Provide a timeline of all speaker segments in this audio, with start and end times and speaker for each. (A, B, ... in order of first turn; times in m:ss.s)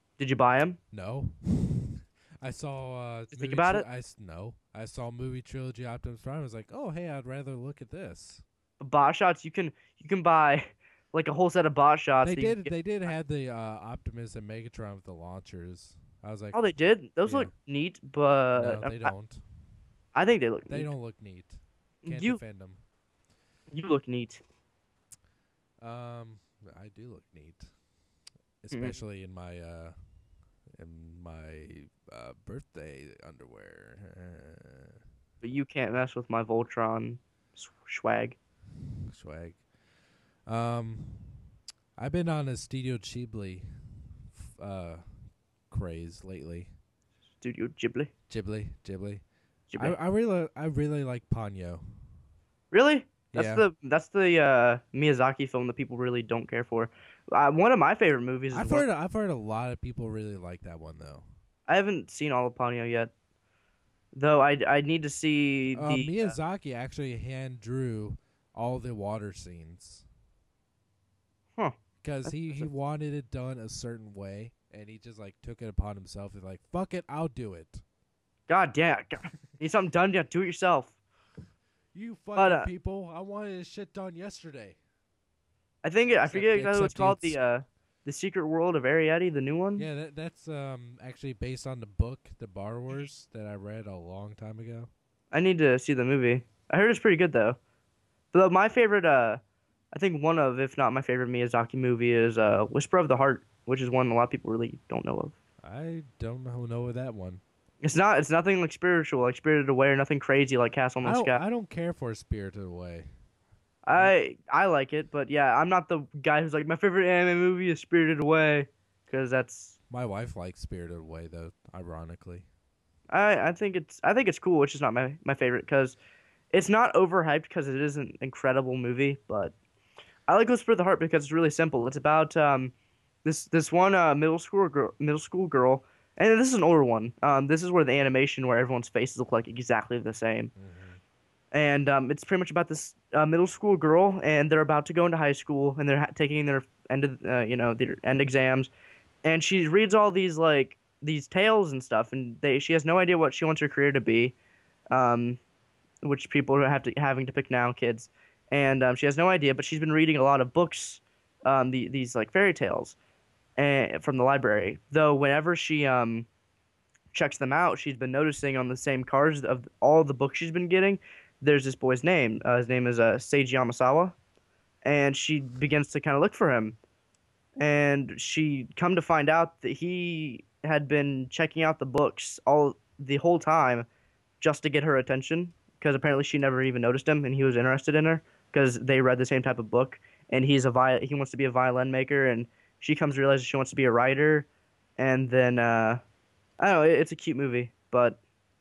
0:00.2-0:00.8 A
0:00.9-0:08.4 B
0:03.3-0:03.8 A
0:08.8-0:12.7 A
0:12.2-0:16.6 B
0:16.5-0:19.1 A
0:17.2-0:17.5 B
0:18.5-0:19.4 B
0:20.1-0:20.9 A
0:20.7-0:22.8 B
0:22.0-0:22.4 A
0:23.7-0:24.4 A
0:25.8-0:27.7 B
0:28.6-0:30.0 B
0:28.7-0:29.0 A
0:30.7-0:35.0 B
0:35.4-0:38.4 A
0:39.1-0:39.6 B
0:40.4-0:41.4 B
0:42.0-0:45.0 B
0:45.7-0:46.7 B
0:47.4-0:48.1 A
0:48.3-0:49.2 B
0:49.7-0:50.0 A
0:49.8-0:52.0 B
0:52.7-0:58.8 A
0:53.3-0:53.7 B
0:58.5-1:01.3 B
1:01.7-1:03.1 A
1:04.1-1:06.3 A
1:05.7-1:10.0 B
1:11.6-1:12.7 A
1:12.0-1:17.8 B
1:18.5-1:21.0 A
1:21.9-1:24.8 B
1:22.3-1:22.7 A
1:25.8-1:29.9 A
1:26.1-1:27.4 B
1:29.8-1:34.9 B
1:35.3-1:37.6 A
1:38.3-1:39.4 A
1:39.9-1:45.3 A
1:45.6-1:47.4 B
1:47.8-1:51.4 A
1:51.0-1:53.1 B
1:53.8-1:59.8 A
1:59.9-2:02.5 B
2:03.1-2:06.0 A
2:06.5-2:09.5 A
2:10.3-2:12.7 A
2:13.2-2:20.5 A
2:20.6-2:21.0 B
2:21.5-2:28.7 A
2:29.2-2:34.3 A
2:34.9-2:35.4 A
2:36.0-2:42.9 A
2:43.6-2:46.3 A
2:47.1-2:54.1 A
2:54.8-2:56.8 A
2:57.6-3:03.8 A
3:04.4-3:14.5 A
3:15.0-3:16.0 A
3:16.6-3:18.2 A